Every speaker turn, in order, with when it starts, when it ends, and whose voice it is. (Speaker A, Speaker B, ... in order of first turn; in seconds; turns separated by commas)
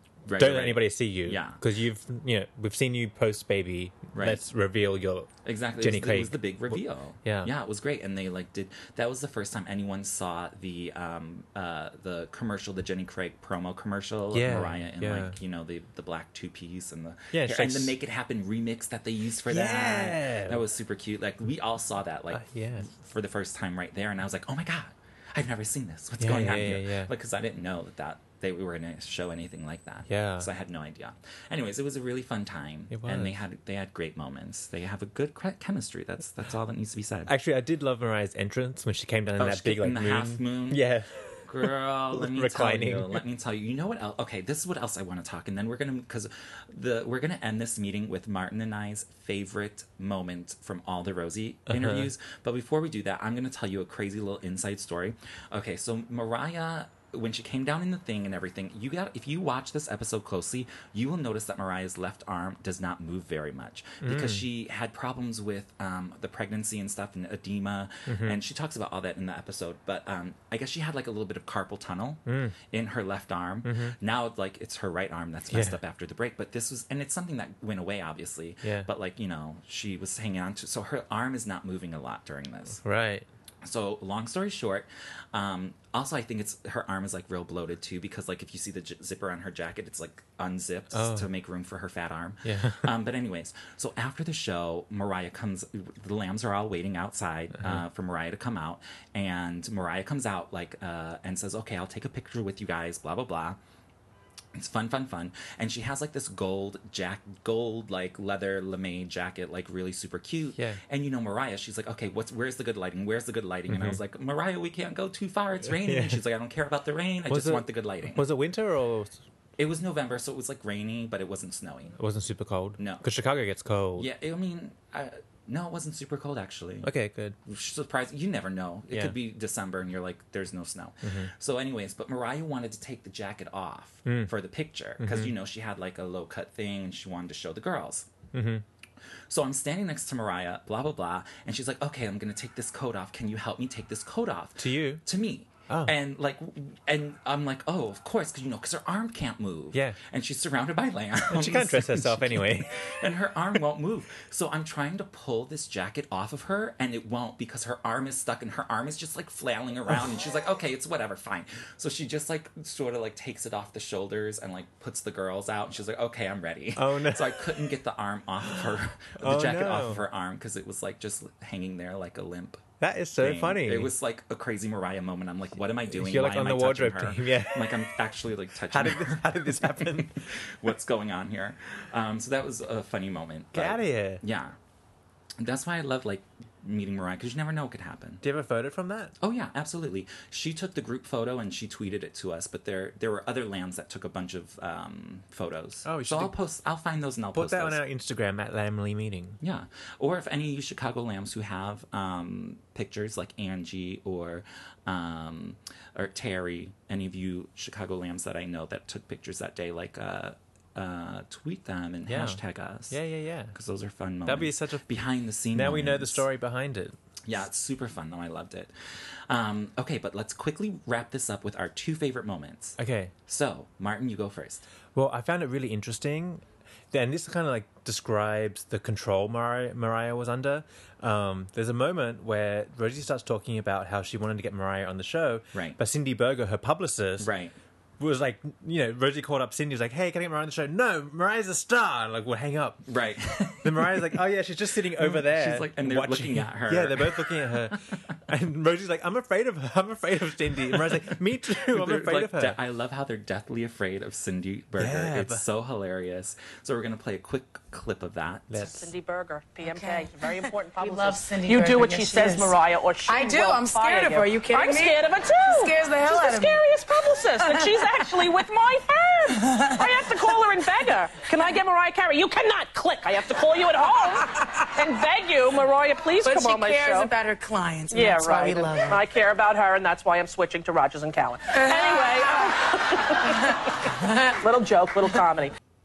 Speaker A: 0.2-1.6, Speaker B: 0.3-7.5, Speaker A: 4.1-4.4, Speaker A: 5.4-37.3, Speaker B: 14.3-15.4, Speaker B: 17.3-18.0, Speaker B: 19.5-20.6, Speaker B: 22.3-22.9, Speaker B: 26.2-27.1, Speaker B: 30.1-30.5, Speaker B: 32.9-33.4, Speaker B: 37.3-43.2, Speaker A: 39.4-40.8, Speaker A: 41.5-82.8, Speaker B: 51.7-52.1, Speaker B: 64.0-64.5, Speaker B: 68.1-68.4, Speaker B: 72.3-72.5, Speaker B: 73.6-74.0, Speaker B: 75.5-75.8, Speaker B: 78.6-78.9, Speaker B: 82.8-83.3, Speaker A: 83.6-103.6, Speaker B: 90.9-91.3, Speaker B: 92.4-92.9, Speaker A: 104.5-118.3, Speaker B: 110.6-110.8, Speaker B: 113.7-114.0, Speaker B: 115.8-116.2, Speaker B: 117.3-119.2, Speaker A: 119.6-122.0, Speaker B: 122.0-124.1, Speaker A: 122.8-123.0, Speaker A: 124.0-126.9, Speaker B: 126.8-127.4, Speaker A: 127.5-138.1, Speaker B: 128.9-129.2, Speaker B: 131.0-131.3, Speaker B: 134.1-134.3, Speaker B: 135.0-135.4, Speaker B: 138.3-138.6, Speaker A: 139.3-172.7, Speaker B: 144.6-145.0, Speaker B: 145.7-146.0, Speaker B: 149.7-150.0, Speaker B: 151.3-152.9, Speaker B: 166.8-167.7, Speaker B: 168.4-170.0, Speaker B: 172.8-173.9, Speaker A: 173.2-184.6, Speaker B: 175.9-177.9, Speaker B: 178.7-180.3, Speaker B: 183.5-184.2, Speaker A: 185.4-188.2, Speaker B: 188.2-189.1, Speaker A: 189.2-197.8, Speaker B: 195.8-196.3, Speaker B: 197.3-199.4, Speaker A: 199.4-213.0, Speaker B: 212.1-213.6, Speaker A: 213.5-216.3, Speaker B: 214.3-214.9, Speaker B: 215.5-217.0, Speaker A: 217.2-224.7, Speaker B: 222.8-223.1, Speaker B: 224.9-237.3, Speaker A: 235.5-235.8, Speaker A: 237.2-237.6, Speaker B: 238.0-242.9, Speaker A: 242.9-244.2, Speaker B: 243.6-252.6, Speaker A: 245.0-248.2, Speaker A: 250.7-258.7, Speaker B: 254.8-255.4, Speaker B: 258.5-258.9, Speaker C: 258.7-277.1, Speaker D: 259.6-266.7, Speaker D: 267.4-268.3, Speaker D: 269.4-270.1, Speaker D: 276.2-279.0, Speaker C: 277.9-285.5, Speaker D: 281.6-282.7, Speaker D: 283.2-284.4